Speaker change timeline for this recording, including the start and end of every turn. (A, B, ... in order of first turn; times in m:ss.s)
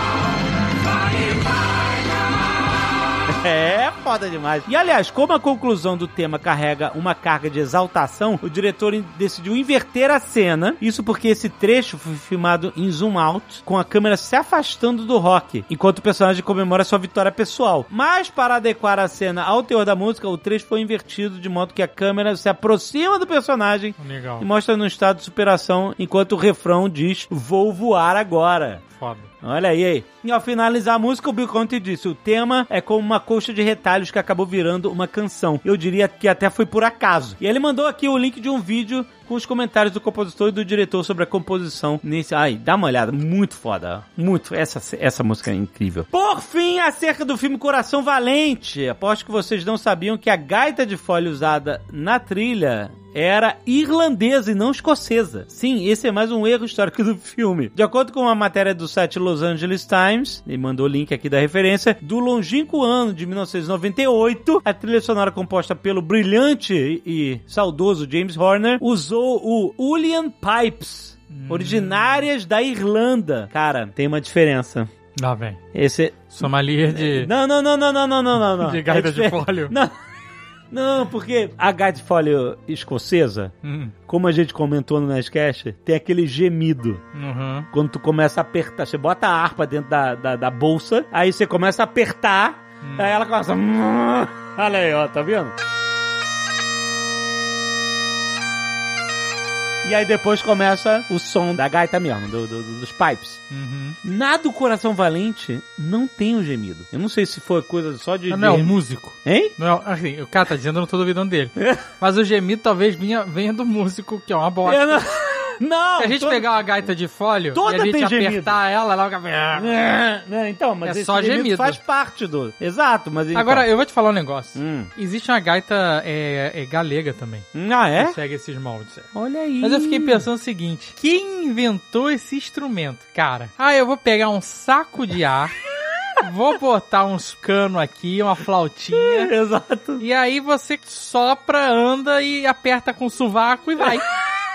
0:03.3-0:28.8 A
0:24.0-0:24.4 B
0:28.9-0:29.3 B
0:29.4-1:14.9 A
1:11.3-1:12.3 B
1:15.2-1:15.6 B
1:15.7-1:19.9 A
1:16.3-1:17.3 B
1:18.6-1:19.7 B
1:20.7-1:23.5 A
1:23.6-1:23.9 B
1:24.1-1:27.0 A
1:27.1-1:27.7 B
1:27.7-1:35.5 A
1:32.8-1:33.1 B
1:39.8-1:43.4 A
1:43.5-1:44.0 B
1:44.0-1:49.5 A
1:48.3-1:55.0 B
1:51.6-1:51.8 A
1:54.6-1:56.9 A
1:56.0-1:59.7 B
1:57.5-1:58.6 A
1:59.5-2:03.7 A
2:00.8-2:01.8 B
2:03.3-2:09.1 B
2:04.6-2:04.9 A
2:07.5-2:08.2 A
2:09.1-2:10.2 A
2:09.6-2:15.6 B
2:16.2-2:19.3 B
2:18.9-2:20.0 A
2:20.0-2:24.1 B